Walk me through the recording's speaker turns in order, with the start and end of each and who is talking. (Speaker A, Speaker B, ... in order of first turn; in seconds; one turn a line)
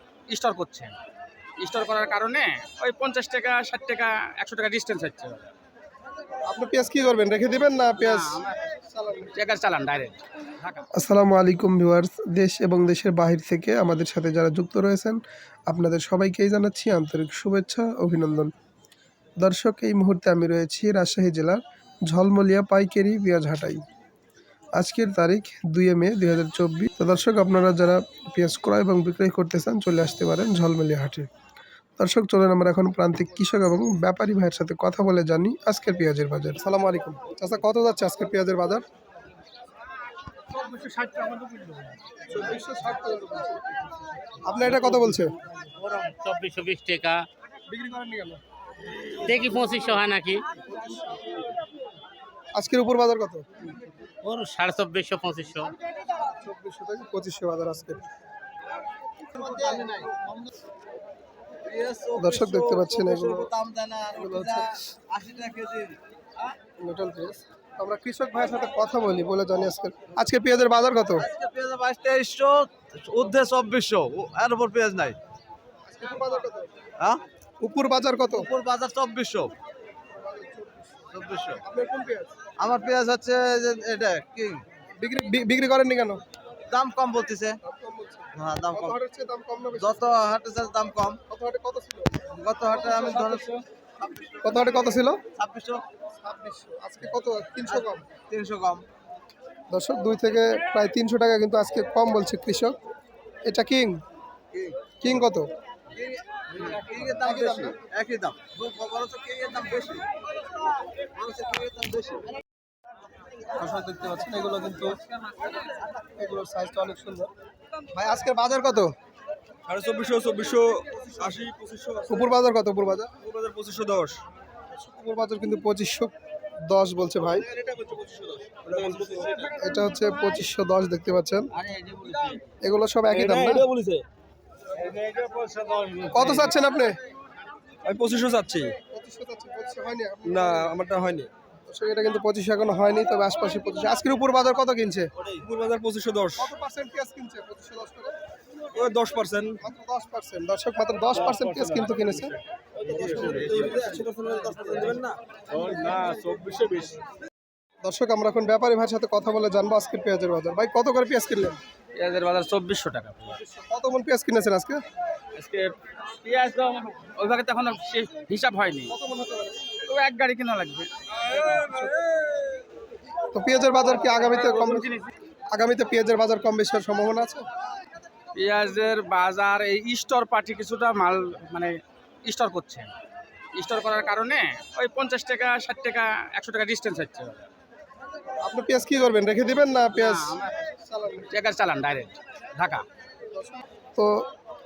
Speaker A: 0.3-0.9
Speaker A: 1.6-5.5
Speaker B: 6.5-9.3
Speaker A: 8.0-8.6
Speaker A: 9.4-10.9
Speaker B: 10.9-18.5
Speaker B: 19.4-23.8
Speaker B: 24.8-31.3
Speaker B: 32.0-38.8
Speaker B: 40.5-43.6
Speaker B: 44.4-45.3
Speaker C: 45.6-47.2
Speaker B: 47.7-48.4
Speaker C: 49.2-50.4
Speaker B: 50.7-51.4
Speaker B: 52.5-53.5
Speaker C: 54.2-55.8
Speaker B: 56.2-58.0
Speaker D: 59.3-60.2
Speaker D: 61.6-66.0
Speaker B: 62.2-63.5
Speaker B: 64.2-64.8
Speaker B: 66.8-71.3
Speaker D: 71.2-75.2
Speaker B: 75.9-76.7
Speaker B: 77.6-78.5
Speaker D: 78.3-79.5
Speaker B: 80.2-82.4
Speaker D: 81.1-81.6
Speaker D: 82.6-84.6
Speaker B: 85.0-86.2
Speaker D: 86.7-87.6
Speaker B: 87.6-90.1
Speaker D: 88.4-89.0
Speaker D: 89.8-91.2
Speaker B: 91.3-92.2
Speaker D: 92.3-95.8
Speaker B: 94.4-95.2
Speaker B: 96.2-98.1
Speaker D: 97.7-98.8
Speaker B: 99.7-102.8
Speaker B: 103.5-104.0
Speaker D: 104.5-105.0
Speaker B: 105.0-105.5
Speaker D: 105.9-110.1
Speaker B: 107.2-107.8
Speaker D: 111.2-112.3
Speaker B: 113.6-115.0
Speaker B: 116.2-117.3
Speaker B: 117.9-118.9
Speaker E: 119.7-122.3
Speaker B: 122.1-123.2
Speaker E: 123.2-124.2
Speaker B: 124.7-126.1
Speaker B: 126.7-127.5
Speaker E: 127.4-129.4
Speaker B: 129.5-131.5
Speaker D: 131.6-132.4
Speaker B: 132.6-133.7
Speaker E: 133.1-134.1
Speaker E: 134.8-136.5
Speaker B: 136.1-137.0
Speaker E: 137.8-138.8
Speaker B: 138.9-140.9
Speaker E: 140.2-141.3
Speaker B: 141.7-145.1
Speaker D: 145.2-145.4
Speaker E: 145.4-146.5
Speaker B: 146.4-148.2
Speaker E: 148.7-149.6
Speaker B: 149.6-152.4
Speaker E: 151.1-157.1
Speaker D: 152.9-155.1
Speaker B: 157.8-161.6
Speaker A: 162.0-163.4
Speaker B: 163.4-164.8
Speaker A: 165.4-168.9
Speaker B: 168.9-169.6
Speaker A: 169.8-171.6
Speaker B: 171.5-172.0
Speaker B: 173.3-174.9
Speaker A: 174.0-175.1
Speaker B: 175.5-177.5
Speaker A: 178.4-182.9
Speaker A: 183.6-187.4
Speaker B: 188.4-191.3
Speaker A: 189.9-190.6
Speaker A: 191.3-192.8
Speaker B: 193.3-194.3